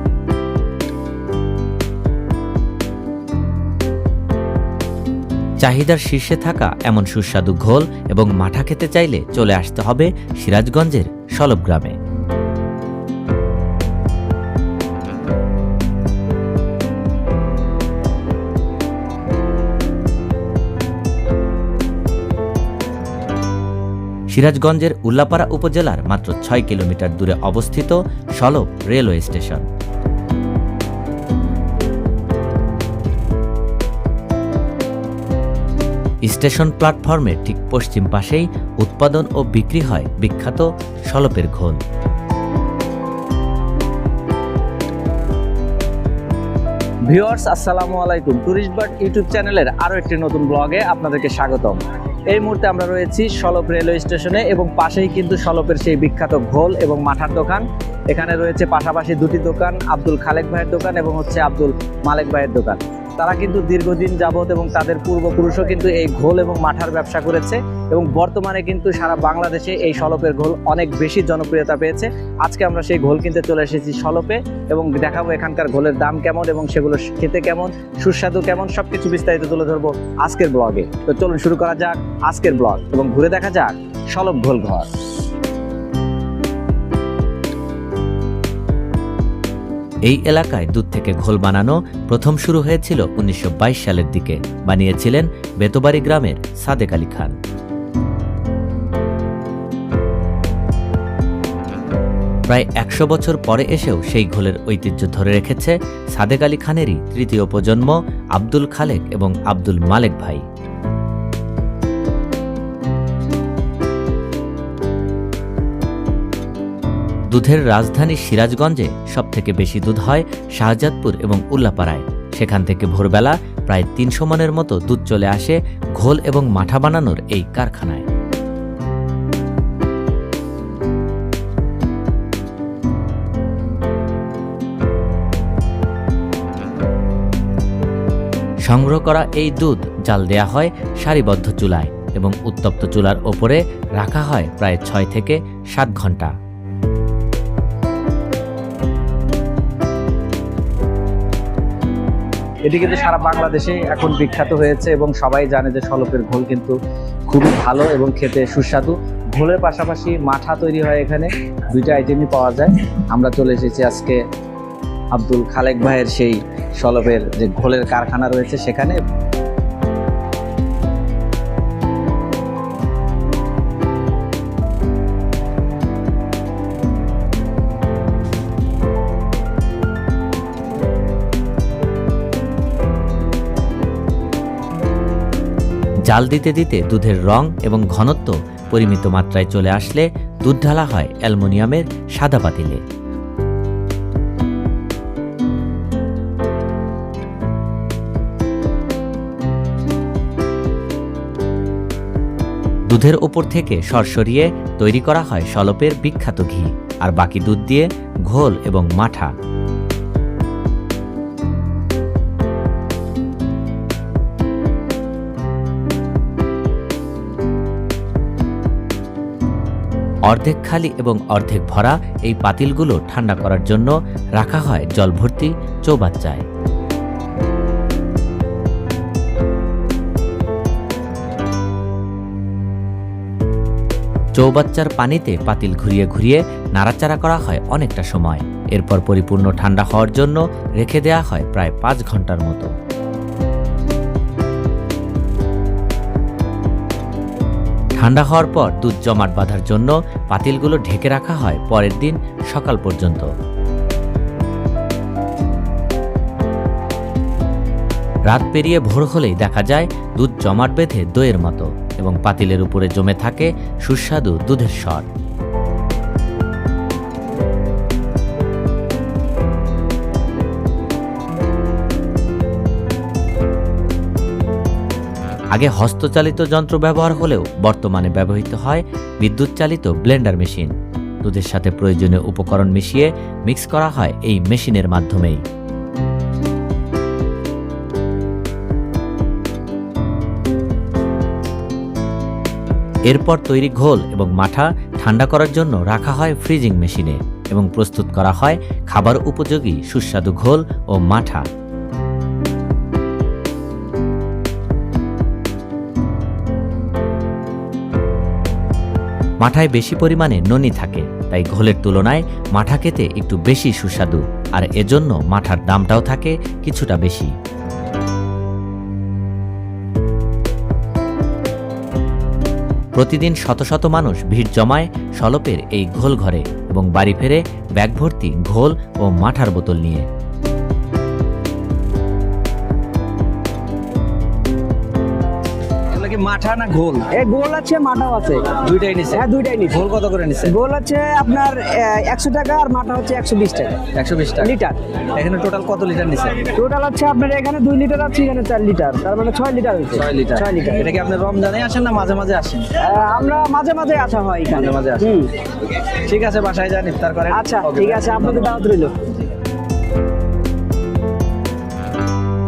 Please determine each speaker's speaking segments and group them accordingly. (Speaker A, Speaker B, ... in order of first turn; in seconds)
Speaker A: 5.6-11.9, 24.3-29.6, 36.2-41.8, 90.0-97.3, 102.5-110.4, 117.3-128.1, 138.7-146.3, 186.1-192.8, 202.9-209.3, 220.3-226.4, 234.3-242.7, 248.0-253.3, 258.3-265.1, 275.5-280.7, 281.2-285.4, 293.1-301.4, 309.4-317.3, 322.9-330.1
Speaker B: 47.1-84.9, 152.7-156.8, 157.3-164.2, 165.1-169.0, 335.9-337.1, 338.5-340.6, 343.9-344.5, 345.1-346.5, 349.9-352.7, 354.5-358.6
Speaker C: 337.1-339.8, 340.4-343.9, 344.4-344.8, 346.5-350.9, 352.8-355.3, 357.3-358.9